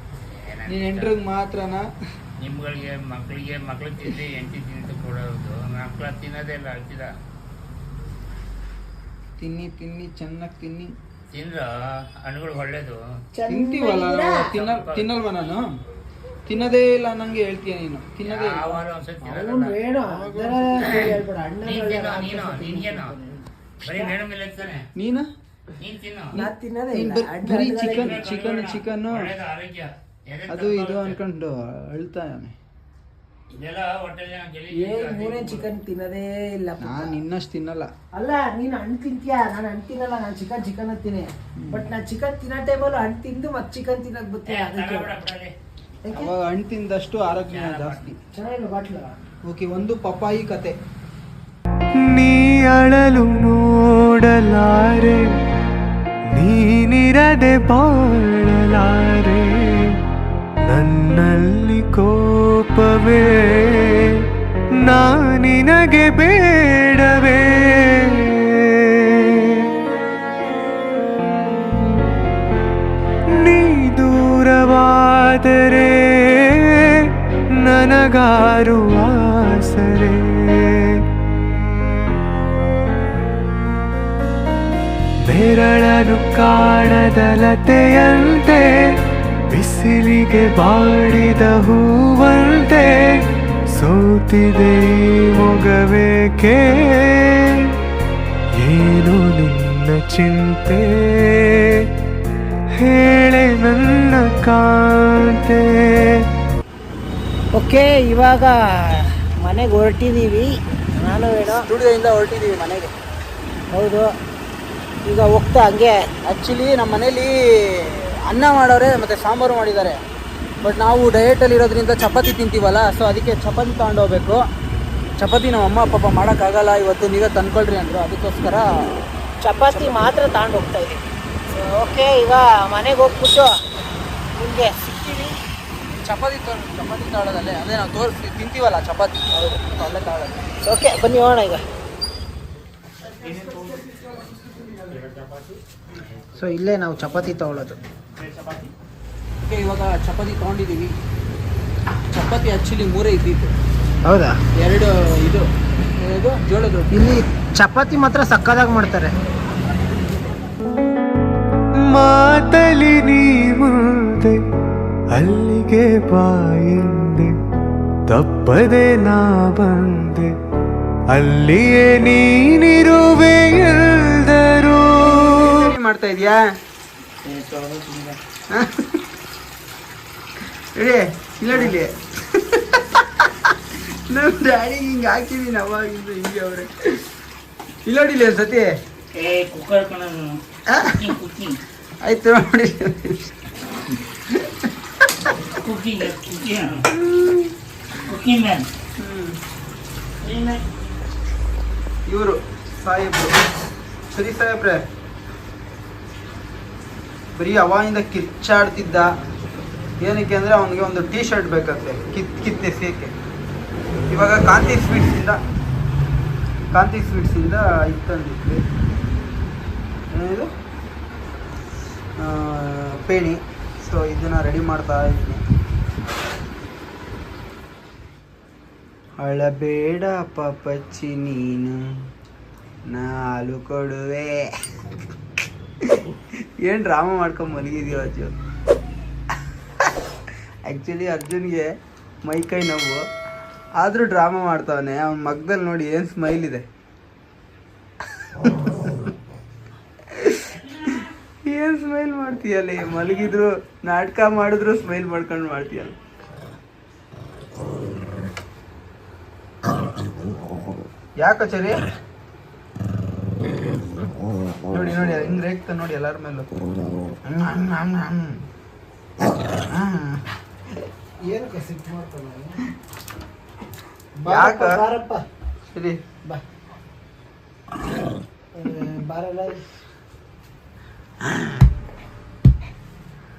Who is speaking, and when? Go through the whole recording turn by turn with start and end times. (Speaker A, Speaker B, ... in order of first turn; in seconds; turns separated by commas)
Speaker A: 0.3-1.1, Speaker B: 0.7-1.9, Speaker A: 2.4-7.1, Speaker B: 9.4-10.9, Speaker A: 11.3-11.7, Speaker A: 12.2-13.0, Speaker C: 13.3-14.5, Speaker B: 13.5-15.7, Speaker A: 14.5-15.1, Speaker B: 16.5-18.8, Speaker A: 18.2-19.7, Speaker C: 19.2-24.1, Speaker B: 20.1-21.2, Speaker A: 20.8-21.1, Speaker A: 21.6-23.1, Speaker A: 23.8-24.9, Speaker B: 24.9-25.3, Speaker A: 25.8-26.3, Speaker B: 26.3-29.3, Speaker C: 26.3-28.2, Speaker A: 27.9-31.2, Speaker B: 30.5-32.5, Speaker A: 33.5-35.6, Speaker C: 34.7-37.2, Speaker B: 36.8-37.9, Speaker C: 38.1-45.1, Speaker A: 44.5-45.5, Speaker C: 46.0-46.3, Speaker B: 46.1-48.1, Speaker A: 47.5-48.1, Speaker C: 48.3-49.1, Speaker B: 49.4-50.7, Speaker D: 52.0-55.3, Speaker D: 56.3-60.0, Speaker D: 60.6-69.7, Speaker D: 71.7-72.0, Speaker D: 73.3-81.0, Speaker D: 85.2-88.9, Speaker D: 89.5-97.7, Speaker D: 98.6-101.9, Speaker D: 102.8-106.2, Speaker C: 107.5-111.7, Speaker B: 111.5-112.9, Speaker C: 113.7-114.1, Speaker C: 115.0-116.0, Speaker B: 116.2-120.0, Speaker B: 120.6-124.4, Speaker B: 125.2-128.7, Speaker C: 129.4-133.5, Speaker B: 129.7-129.9, Speaker C: 134.3-135.3, Speaker B: 136.0-140.4, Speaker C: 140.6-141.6, Speaker C: 146.3-147.8, Speaker B: 149.4-151.0, Speaker B: 152.1-153.5, Speaker C: 154.0-154.4, Speaker B: 154.6-155.4, Speaker B: 156.0-157.0, Speaker C: 156.9-159.1, Speaker D: 161.9-164.4, Speaker D: 165.1-167.3, Speaker D: 168.1-170.3, Speaker D: 171.1-175.7, Speaker B: 175.2-176.4, Speaker A: 177.2-178.2, Speaker B: 178.5-179.0, Speaker B: 180.8-187.1, Speaker B: 187.8-188.7, Speaker A: 189.2-190.3, Speaker B: 190.7-191.0, Speaker A: 190.9-191.5, Speaker B: 192.0-193.3, Speaker B: 194.3-194.7, Speaker A: 195.6-196.8, Speaker B: 197.1-197.5, Speaker A: 198.0-198.7, Speaker B: 199.0-199.4, Speaker A: 200.2-200.6, Speaker B: 202.1-203.4, Speaker B: 204.1-204.8, Speaker B: 207.3-209.1, Speaker B: 210.0-213.1, Speaker B: 214.1-215.4, Speaker B: 216.7-218.7, Speaker B: 220.1-220.5, Speaker B: 222.2-225.4, Speaker B: 229.2-231.8, Speaker B: 232.9-234.5, Speaker B: 235.8-238.3, Speaker B: 240.7-243.0, Speaker B: 243.8-246.6, Speaker B: 248.4-249.1, Speaker B: 250.1-250.6, Speaker B: 251.4-255.9, Speaker B: 261.2-261.8, Speaker B: 264.7-266.5, Speaker B: 267.2-268.4, Speaker B: 269.4-270.2, Speaker C: 271.2-272.6, Speaker C: 274.2-275.2, Speaker B: 274.3-274.8, Speaker B: 275.7-276.0, Speaker C: 278.6-279.6